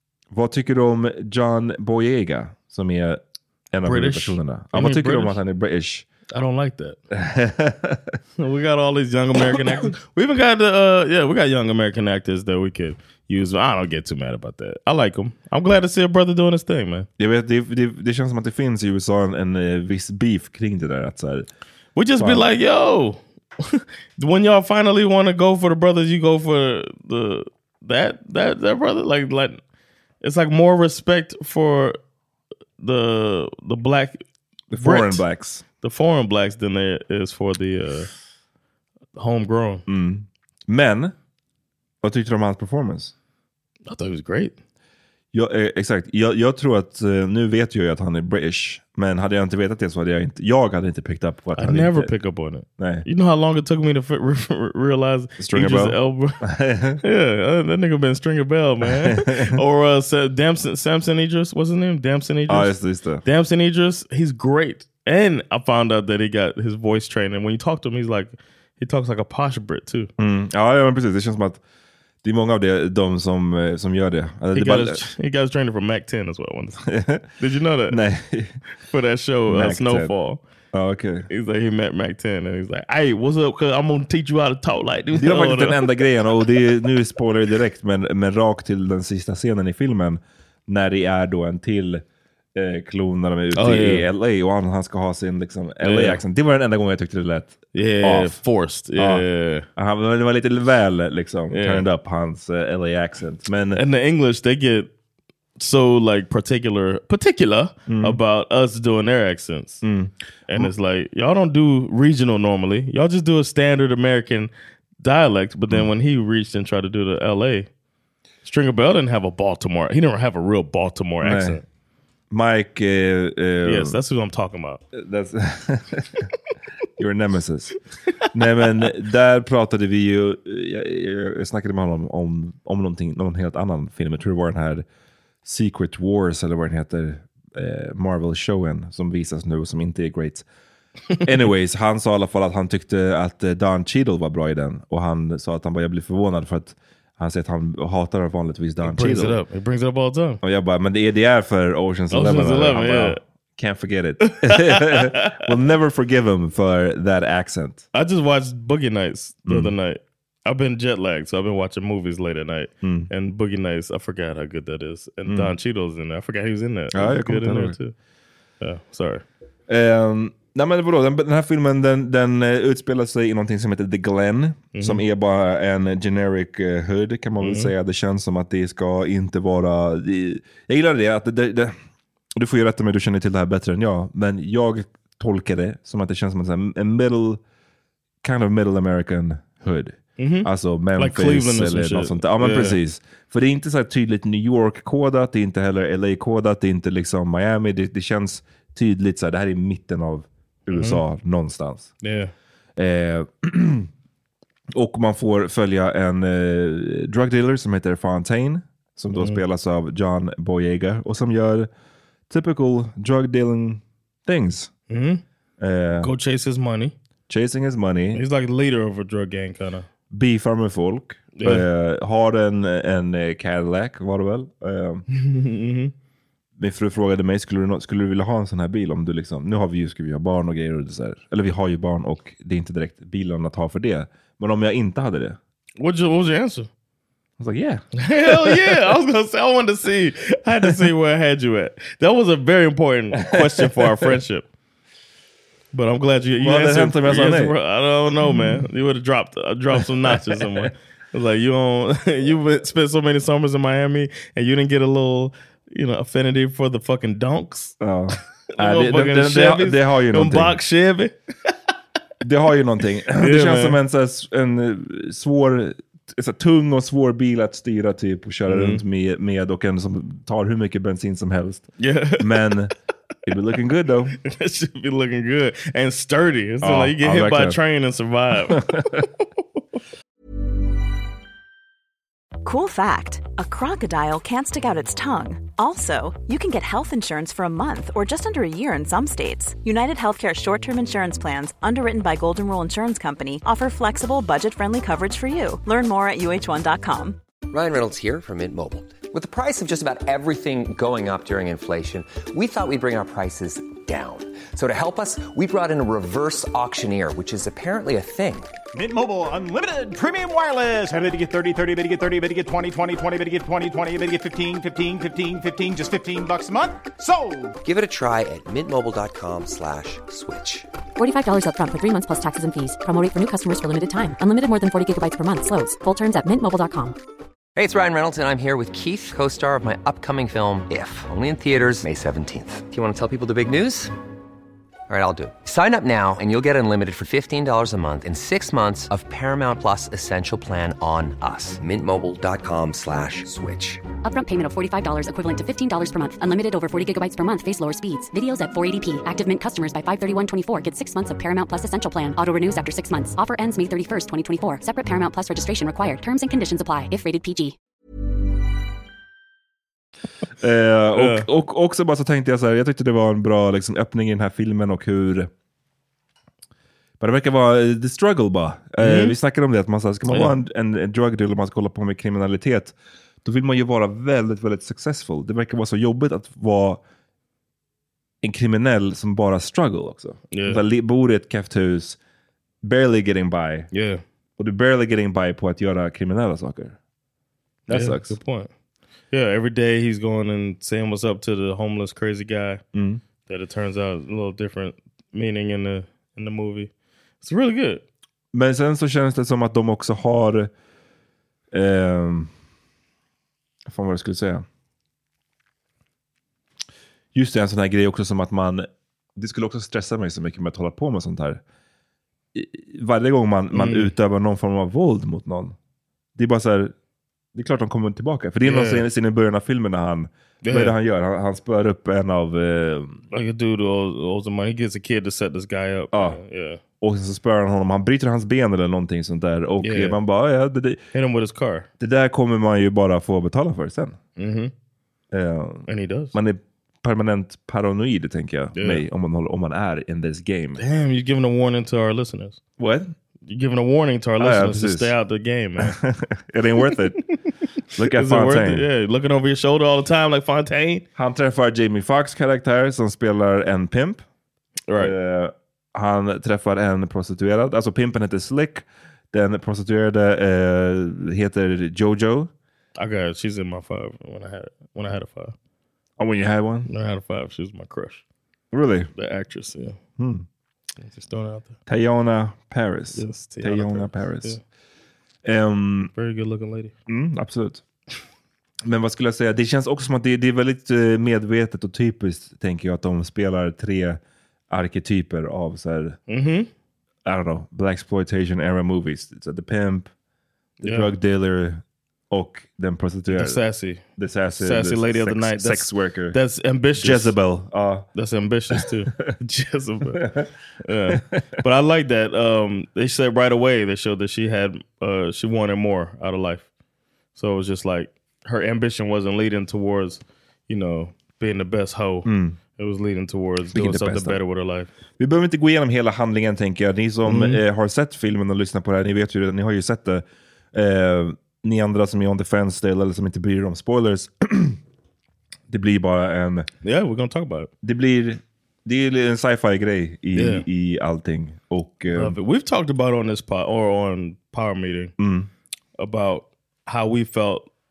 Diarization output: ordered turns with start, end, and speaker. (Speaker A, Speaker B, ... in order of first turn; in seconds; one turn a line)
Speaker A: 0.3-6.1
Speaker B: 3.9-5.4
Speaker B: 6.3-7.0
Speaker A: 7.1-8.2
Speaker B: 8.4-17.1
Speaker A: 17.2-21.5
Speaker B: 22.0-29.6
Speaker A: 22.2-22.5
Speaker B: 30.2-32.0
Speaker B: 32.8-34.2
Speaker A: 34.7-35.6
Speaker B: 34.8-35.2
Speaker B: 35.8-38.1
Speaker B: 39.2-39.8
Speaker A: 39.9-41.1
Speaker A: 42.0-43.1
Speaker B: 43.9-44.5
Speaker A: 45.3-52.1
Speaker B: 51.6-56.5
Speaker A: 52.8-53.1
Speaker A: 55.4-57.0
Speaker B: 57.0-62.7
Speaker A: 58.8-59.6
Speaker A: 62.5-63.2
Speaker B: 63.2-70.1
Speaker A: 70.2-71.6
Speaker A: 72.2-75.0
Speaker B: 74.5-78.0
Speaker A: 76.9-77.3
Speaker A: 77.9-78.6
Speaker B: 78.9-80.4
Speaker A: 79.5-80.1
Speaker A: 80.7-81.3
Speaker B: 81.3-86.4
Speaker A: 85.1-92.0
Speaker A: 92.5-98.4
Speaker B: 93.5-94.1
Speaker B: 95.8-96.2
Speaker B: 97.7-99.7
Speaker A: 99.0-99.2
Speaker A: 99.8-103.8
Speaker B: 101.5-101.9
Speaker B: 103.8-104.9
Speaker B: 105.6-109.8
Speaker A: 107.9-108.2
Speaker A: 109.8-110.7
Speaker B: 110.5-117.7
Speaker B: 118.4-121.6
Speaker A: 121.2-121.6
Speaker A: 122.3-124.0
Speaker B: 123.7-124.8
Speaker A: 124.9-126.3
Speaker A: 127.0-127.8
Speaker A: 128.3-134.8
Speaker A: 135.4-140.4
Speaker A: 141.2-149.4
Speaker B: 148.8-150.4
Speaker A: 150.4-157.8
Speaker B: 152.1-153.2
Speaker B: 154.3-155.4
Speaker B: 157.9-167.9
Speaker A: 159.5-159.7
Speaker A: 162.8-163.1
Speaker A: 165.3-165.5
Speaker A: 166.9-167.8
Speaker B: 168.6-169.2
Speaker A: 169.7-181.8
Speaker B: 174.8-175.0
Speaker B: 177.4-177.7
Speaker A: 182.3-187.4
Speaker A: 188.2-201.9
Speaker B: 190.2-192.8
Speaker B: 200.7-201.0
Speaker B: 202.0-202.3
Speaker A: 202.8-203.9
Speaker A: 204.7-211.7
Speaker A: 212.3-214.7
Speaker B: 214.9-215.2
Speaker A: 215.6-216.1
Speaker B: 216.0-216.9
Speaker A: 217.3-218.2
Speaker B: 218.1-219.9
Speaker A: 220.1-225.1
Speaker B: 221.3-221.7
Speaker B: 225.1-225.9
Speaker A: 226.6-235.4
Speaker B: 235.8-236.7
Speaker A: 237.4-238.8
Speaker B: 238.0-244.5
Speaker A: 243.4-243.9
Speaker B: 245.7-257.8
Speaker A: 246.4-247.6
Speaker A: 248.2-248.7
Speaker A: 250.1-250.7
Speaker A: 257.8-260.6
Speaker B: 258.6-261.6
Speaker A: 262.2-272.7
Speaker B: 263.2-263.8
Speaker B: 268.5-268.8
Speaker B: 271.8-272.7
Speaker A: 273.3-274.2
Speaker B: 274.2-279.2
Speaker A: 276.6-277.6
Speaker A: 278.5-279.0
Speaker C: 282.4-297.2
Speaker D: 297.5-308.6
Speaker E: 308.7-317.6
Speaker D: 317.6-320.7
Speaker F: 321.0-327.0
Speaker D: 327.6-333.9
Speaker D: 334.9-343.9
Speaker F: 344.0-357.6
Speaker A: 360.4-365.3
Speaker B: 361.0-361.3
Speaker A: 367.0-376.8
Speaker B: 368.8-369.1
Speaker B: 370.1-370.3
Speaker A: 378.2-382.0
Speaker B: 380.3-380.6
Speaker A: 382.6-383.7
Speaker B: 383.7-384.0
Speaker A: 384.4-386.8
Speaker A: 387.7-388.2
Speaker B: 387.7-388.5
Speaker B: 389.1-392.6
Speaker A: 392.7-393.0
Speaker B: 393.3-397.8
Speaker A: 398.3-400.5
Speaker A: 401.5-402.3
Speaker A: 403.7-404.5
Speaker A: 407.1-411.4
Speaker A: 412.3-415.6
Speaker B: 413.5-413.9
Speaker A: 416.2-416.8
Speaker A: 417.3-423.1
Speaker B: 418.4-418.9
Speaker B: 420.4-420.8
Speaker B: 423.1-426.6
Speaker A: 425.9-426.2
Speaker A: 426.8-430.8
Speaker B: 429.6-430.0
Speaker B: 430.9-431.7
Speaker A: 431.8-434.0
Speaker B: 434.2-434.5
Speaker A: 435.1-440.6
Speaker B: 435.7-436.2
Speaker B: 438.6-438.8
Speaker B: 440.6-442.4
Speaker A: 442.6-442.9
Speaker B: 443.3-445.8
Speaker A: 444.2-444.9
Speaker A: 445.6-447.0
Speaker A: 447.7-448.7
Speaker B: 447.8-450.9
Speaker A: 451.0-454.1
Speaker B: 454.7-454.9
Speaker A: 454.8-462.3
Speaker B: 462.8-465.4
Speaker A: 466.0-466.7
Speaker B: 466.7-468.0
Speaker A: 468.5-468.9
Speaker B: 469.0-469.8
Speaker A: 470.0-470.3
Speaker B: 470.8-471.6
Speaker A: 471.7-474.4
Speaker B: 472.9-474.4
Speaker A: 475.2-475.9
Speaker B: 475.9-476.7
Speaker A: 476.9-477.6
Speaker A: 478.6-486.0
Speaker B: 486.1-486.5
Speaker A: 487.1-489.9
Speaker A: 490.6-493.4
Speaker B: 490.6-490.9
Speaker B: 493.1-493.8
Speaker A: 494.0-496.2
Speaker B: 494.4-497.2
Speaker A: 496.8-497.9
Speaker B: 497.9-506.5
Speaker A: 498.5-499.1
Speaker A: 500.0-500.3
Speaker B: 507.1-514.7
Speaker A: 512.0-512.4
Speaker A: 513.5-514.2
Speaker A: 515.0-524.6
Speaker B: 517.1-517.4
Speaker A: 525.5-526.5
Speaker B: 526.6-527.5
Speaker A: 527.6-532.2
Speaker B: 530.1-530.5
Speaker B: 531.9-535.0
Speaker A: 535.0-535.3
Speaker B: 535.8-537.5